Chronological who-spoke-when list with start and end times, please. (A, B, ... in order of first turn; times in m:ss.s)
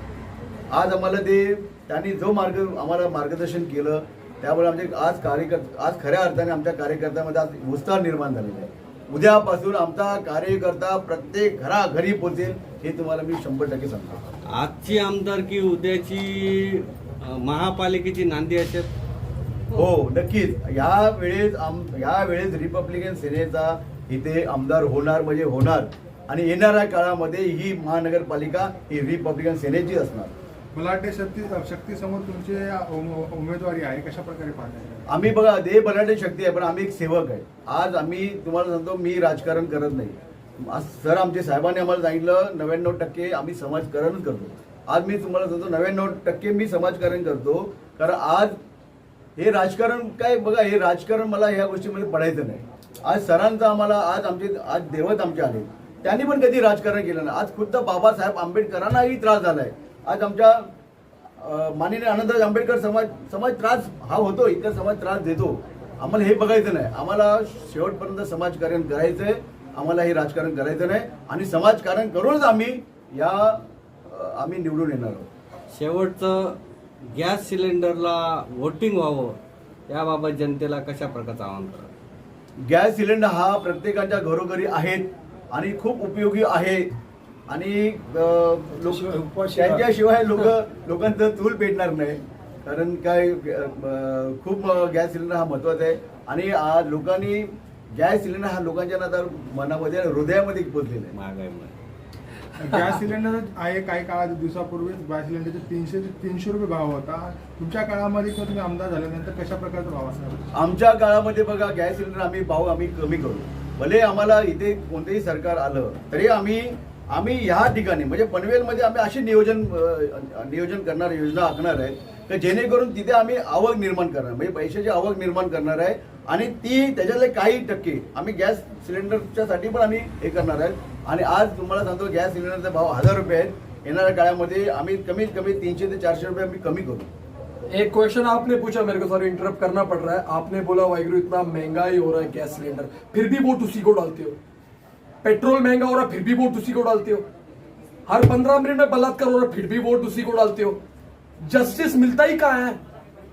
0:00.7-0:14.3 A
0:14.5-0:18.9 B
0:19.7-0:30.3 A
0:30.7-0:35.0 C
0:35.1-0:48.6 A
0:49.4-1:00.7 A
1:01.4-1:15.3 A
1:15.7-1:16.6 B
1:17.1-1:21.9 B
1:22.6-1:26.9 A
1:27.5-1:41.2 A
1:28.9-1:29.8 C
1:41.2-1:41.7 B
1:42.6-1:50.5 C
1:50.5-2:17.1 A
2:17.7-2:24.4 D
2:25.2-2:27.2 D
2:28.1-2:30.8 D
2:31.4-2:32.8 D